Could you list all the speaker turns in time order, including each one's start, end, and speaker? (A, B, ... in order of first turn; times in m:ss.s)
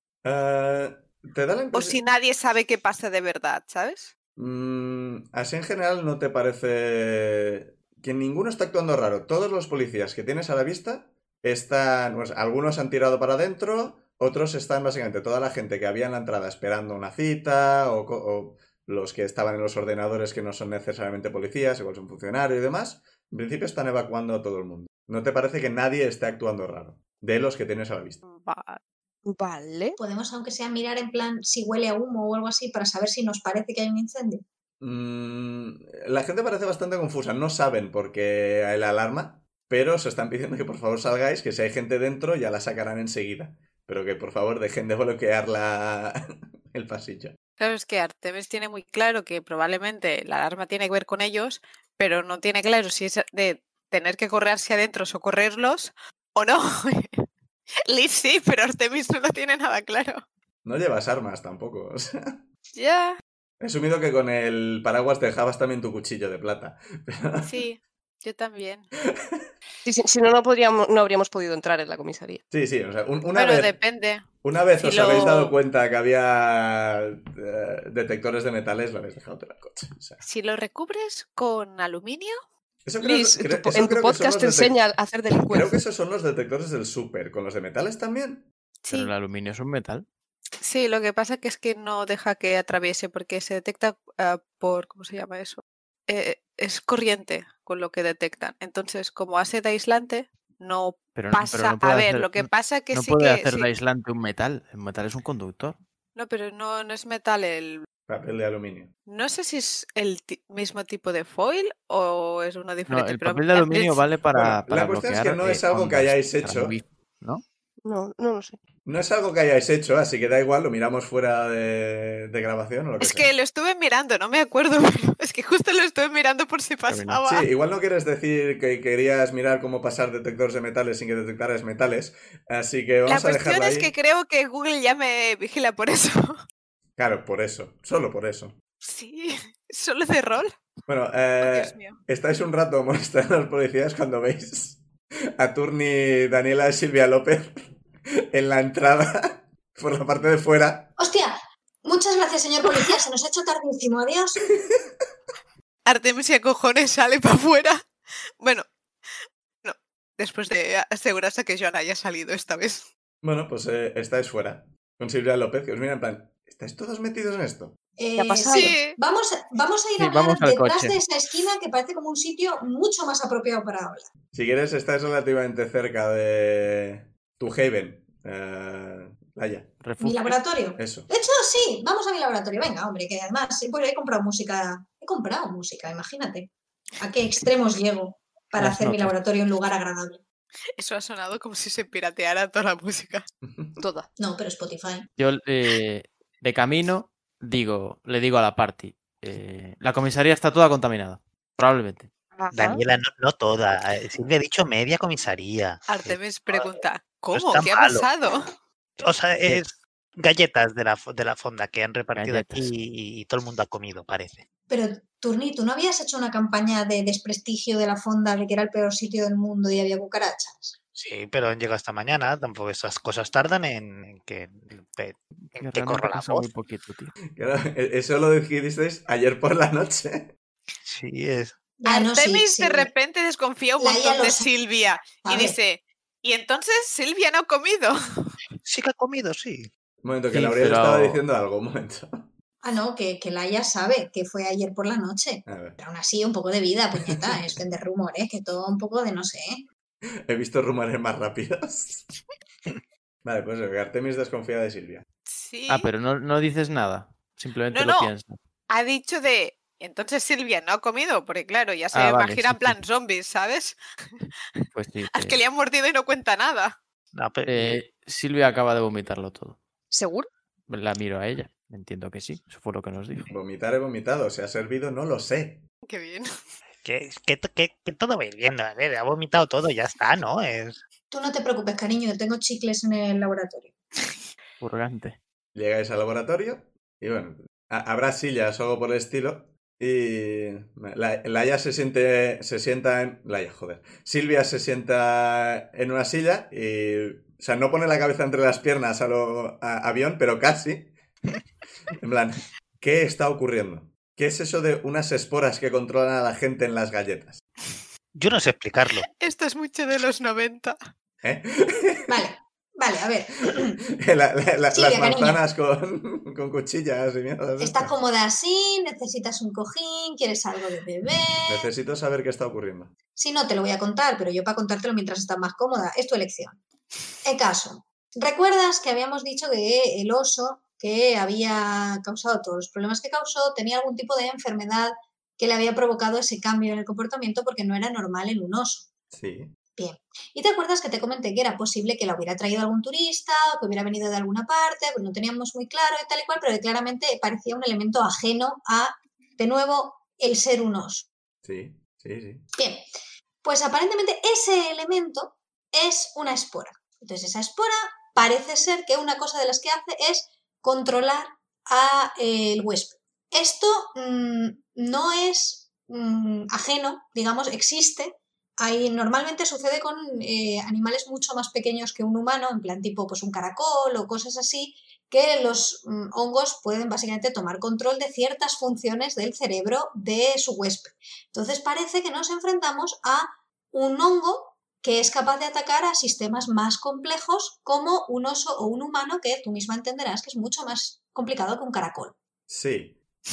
0:00.2-0:02.0 A
0:01.7-0:04.1 B
0:04.4-0:28.2 A
0:28.2-0:28.8 B
0:29.3-0:30.0 C
0:30.0-0:34.4 D
0:34.8-0:47.4 A
0:47.6-0:57.2 B
0:57.9-1:00.2 B
1:00.6-1:02.4 A
1:02.8-1:03.2 B
1:03.6-1:07.6 A
1:07.4-1:08.9 B
1:09.0-1:09.5 A
1:09.8-1:12.4 C
1:12.5-1:13.8 A
1:13.4-1:15.6 B
1:14.4-1:20.2 A
1:20.2-1:22.4 B
1:22.8-1:24.8 A
1:23.0-1:25.8 C
1:25.5-1:28.5 A
1:28.8-1:29.1 B
1:28.9-1:30.1 E
1:30.6-1:43.7 B
1:41.2-1:45.8 E
1:46.2-1:47.9 B
1:48.1-1:48.9 A
1:49.1-1:54.0 B
1:52.9-1:57.4 E
1:54.3-1:56.8 A
1:57.8-1:58.6 C
1:58.8-2:03.3 A
2:03.0-2:07.5 B
2:06.9-2:07.2 E
2:07.3-2:13.9 A
2:13.1-2:16.4 B
2:17.0-2:18.6 A
2:18.8-2:20.6 B
2:20.9-2:24.8 A
2:21.4-2:22.0 B
2:25.4-2:27.7 A
2:28.3-2:30.9 A
2:31.0-2:34.4 D
2:34.5-2:34.9 A
2:35.9-2:37.9 B
2:38.4-2:38.7 B
2:39.6-2:42.9 B
2:43.2-2:47.8 A
2:48.0-2:54.1 D
2:48.2-2:48.8 C
2:48.5-2:49.0 B
2:50.0-2:51.0 E
2:54.3-2:59.8 A
2:59.8-3:00.4 E
3:00.0-3:10.2 D
3:00.8-3:01.1 A
3:08.6-3:09.2 E
3:10.8-3:13.3 B
3:13.4-3:13.8 A
3:13.8-3:14.1 C
3:14.2-3:15.1 D
3:15.2-3:22.1 E
3:22.4-3:22.8 C
3:22.5-3:26.8 F
3:25.9-3:28.5 B
3:27.3-3:28.1 F
3:29.0-3:34.4 F
3:32.2-3:32.7 E
3:34.7-3:40.8 D
3:41.0-3:46.5 F
3:45.4-3:47.1 E
3:47.3-3:50.3 A
3:50.8-3:51.6 F
3:51.8-3:52.9 D
3:51.9-3:58.4 B
3:53.8-3:54.5 D
3:55.2-3:55.6 D
3:58.6-3:59.7 F
4:00.0-4:02.3 A
4:00.3-4:01.2 E
4:02.6-4:09.6 D
4:05.5-4:05.8 A
4:10.3-4:12.1 A
4:13.2-4:15.1 A
4:15.3-4:15.9 B
4:15.7-4:18.4 E
4:17.7-4:18.1 B
4:18.7-4:24.3 B
4:21.9-4:22.8 E
4:24.7-4:25.4 E
4:25.1-4:26.8 B
4:27.1-4:27.8 F
4:27.5-4:29.6 E
4:29.9-4:30.3 C
4:30.7-4:33.3 E
4:33.3-4:35.6 A
4:35.9-4:36.3 B
4:36.8-4:40.8 F
4:41.1-4:43.7 D
4:44.6-4:45.2 E
4:45.5-5:01.4 A
5:01.9-5:07.4 A
5:08.1-5:09.1 F
5:09.1-5:10.8 B
5:11.2-5:12.2 A
5:12.1-5:13.8 D
5:13.5-5:17.9 A
5:14.7-5:15.4 D
5:17.6-5:21.7 D
5:21.5-5:22.9 A
5:23.2-5:26.6 D
5:27.2-5:38.9 D
5:39.1-5:39.5 A
5:39.8-5:51.1 D
5:51.4-5:52.5 A
5:52.5-5:52.9 D
5:53.4-6:32.2 D
6:32.5-6:33.0 A